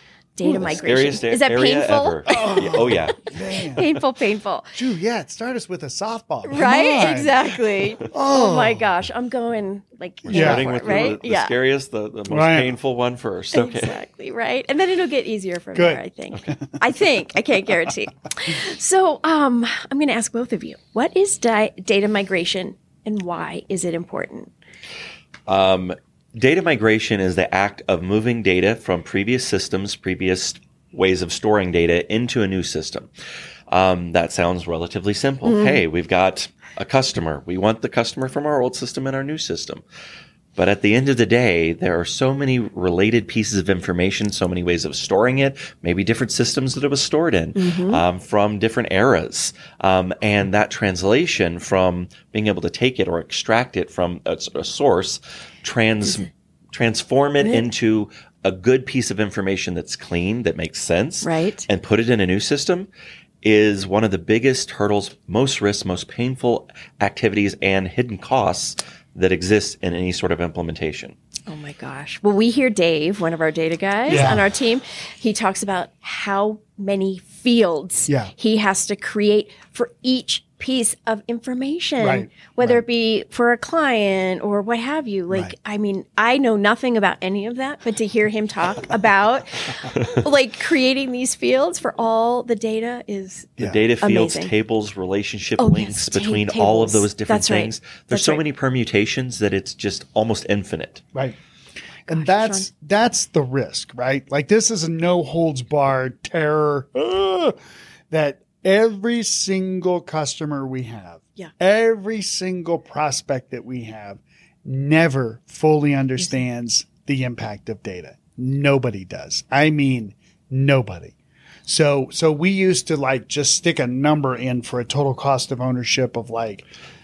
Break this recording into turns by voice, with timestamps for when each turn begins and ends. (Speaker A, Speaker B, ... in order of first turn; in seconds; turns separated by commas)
Speaker A: 0.3-4.8, Speaker B: 0.4-0.8, Speaker C: 0.6-4.0, Speaker B: 2.3-3.9, Speaker B: 4.7-7.4, Speaker A: 6.4-11.5, Speaker B: 8.1-8.9, Speaker C: 10.2-13.9, Speaker B: 10.3-11.1, Speaker B: 12.3-12.7, Speaker A: 13.5-24.5, Speaker B: 15.7-16.8, Speaker C: 25.5-33.1, Speaker C: 33.7-39.8, Speaker A: 35.4-35.8, Speaker C: 40.5-62.9, Speaker A: 47.5-48.0, Speaker A: 57.4-57.7, Speaker A: 61.2-61.6, Speaker C: 63.4-71.2, Speaker A: 71.5-94.5, Speaker B: 74.0-74.5, Speaker C: 74.1-74.4, Speaker B: 82.0-82.8, Speaker B: 85.3-85.5, Speaker B: 93.6-93.8, Speaker C: 93.6-101.0, Speaker A: 95.6-98.4, Speaker A: 102.0-102.7, Speaker B: 102.1-107.5, Speaker B: 108.1-121.1, Speaker B: 121.7-126.7